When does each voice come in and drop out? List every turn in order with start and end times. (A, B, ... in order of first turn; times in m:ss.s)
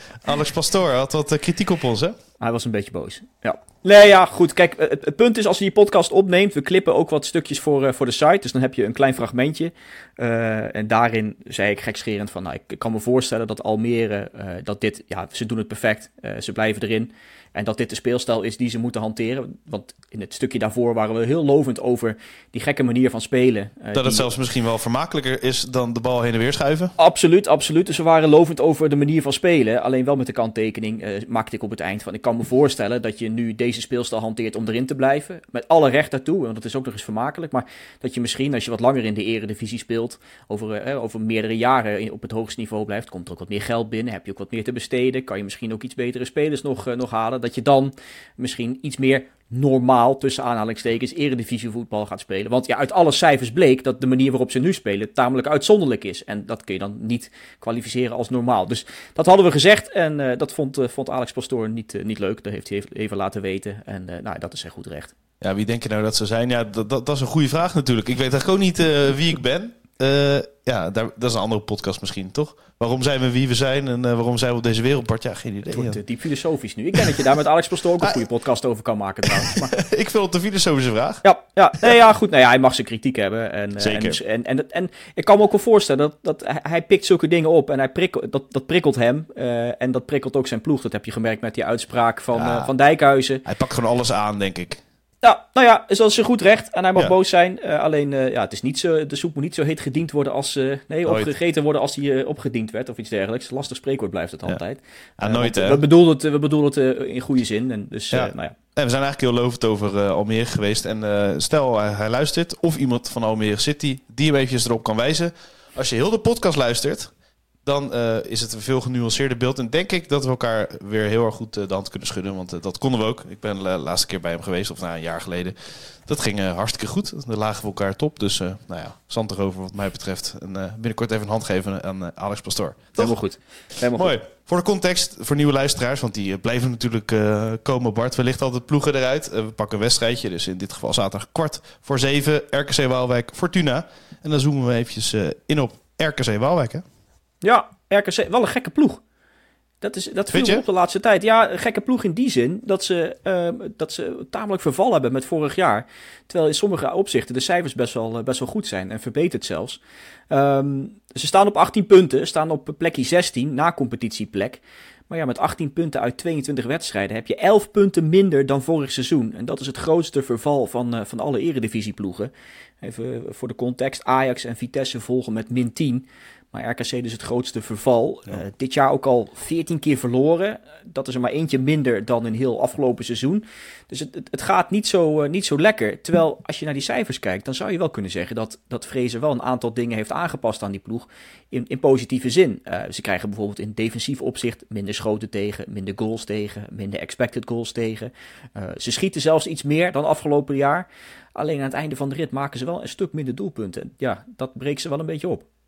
0:00.2-0:02.2 A
0:02.4-0:24.3 B
0:23.9-0:26.9 A
0:27.0-1:05.1 B
1:05.4-1:16.0 A
1:15.7-1:19.7 B
1:17.0-1:17.2 A
1:19.4-1:21.2 A
1:21.2-1:33.4 B
1:23.8-1:24.2 A
1:32.3-1:32.7 A
1:33.4-1:34.8 A
1:35.2-1:48.5 B
1:41.0-1:41.3 A
1:45.2-1:45.8 A
1:48.1-1:57.1 A
1:57.6-2:13.1 A
2:13.0-2:14.1 B
2:13.9-2:26.8 A
2:27.4-2:29.0 B
2:29.8-2:39.8 B
2:30.3-2:30.6 A
2:40.3-3:25.4 B